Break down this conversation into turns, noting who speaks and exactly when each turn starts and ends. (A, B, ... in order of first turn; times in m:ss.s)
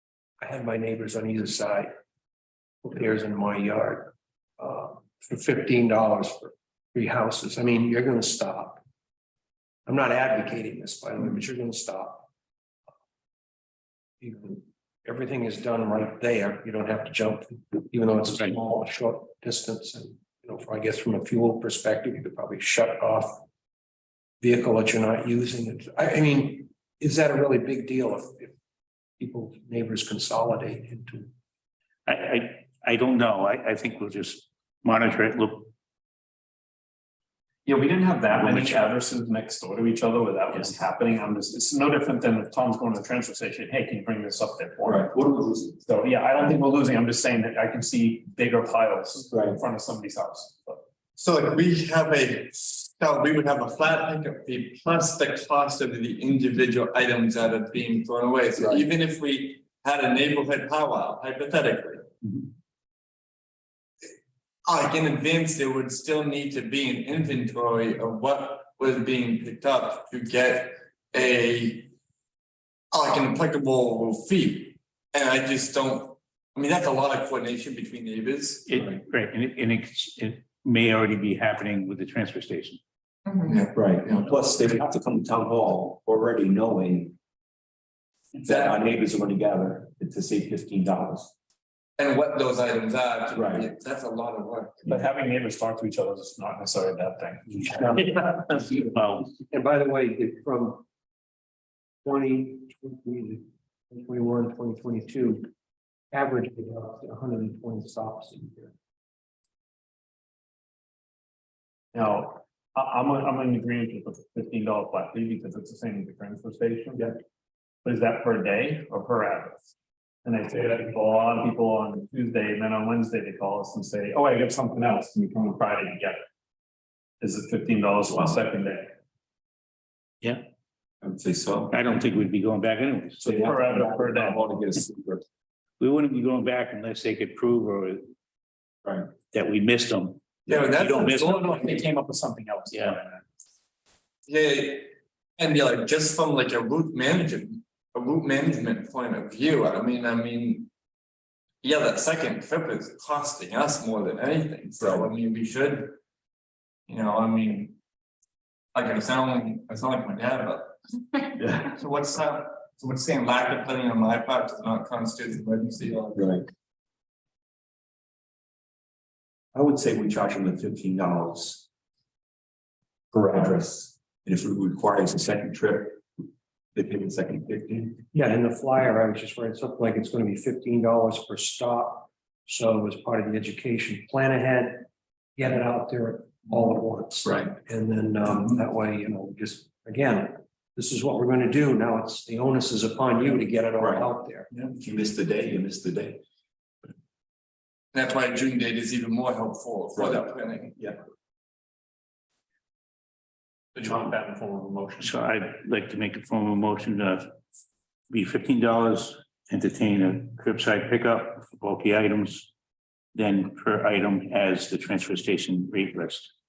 0:00.4-0:01.9 A
0:02.8-0:08.8 A
0:09.9-0:12.3 A
0:14.2-0:23.4 A
0:24.4-0:28.5 A
0:29.2-0:31.3 A
0:32.1-0:35.7 B
0:37.7-0:45.0 C
0:38.3-0:38.8 B
0:44.8-0:45.8 D
0:45.9-0:50.8 C
0:49.3-0:49.6 D
0:51.2-1:02.0 E
1:04.7-1:11.9 E
1:12.9-1:18.9 E
1:18.7-1:22.8 B
1:23.3-1:24.3 E
1:23.7-1:27.2 D
1:28.4-1:31.3 D
1:28.4-1:28.7 E
1:32.0-1:35.0 E
1:33.3-1:33.7 D
1:34.9-1:37.8 C
1:38.9-1:39.3 B
1:39.5-1:40.8 A
1:42.0-1:45.5 A
1:46.1-1:48.7 A
1:52.0-1:57.1 C
1:57.8-1:59.6 C
2:00.2-2:06.1 C
2:07.2-2:08.9 C
2:11.0-2:11.8 D
2:11.7-2:13.5 B
2:13.2-2:15.2 D
2:13.4-2:14.4 C
2:15.8-2:18.0 B
2:19.3-2:21.7 B
2:20.5-2:21.8 E
2:21.3-2:23.2 C
2:22.7-2:23.0 B
2:24.3-2:30.7 E
2:31.6-2:36.0 E
2:34.8-2:35.1 D
2:36.9-2:37.8 E
2:38.8-2:46.4 E
2:41.4-2:41.7 D
2:46.2-2:46.5 D
2:49.5-2:51.7 D
2:53.1-2:56.0 D
2:56.8-2:58.0 D
2:58.1-3:14.5 A
3:07.2-3:07.5 D
3:13.8-3:14.1 D
3:14.7-3:16.2 D
3:17.9-3:20.8 E
3:20.0-3:21.0 D
3:23.8-3:25.1 C
3:25.0-3:27.3 B
3:28.1-3:32.5 B
3:33.2-3:36.3 B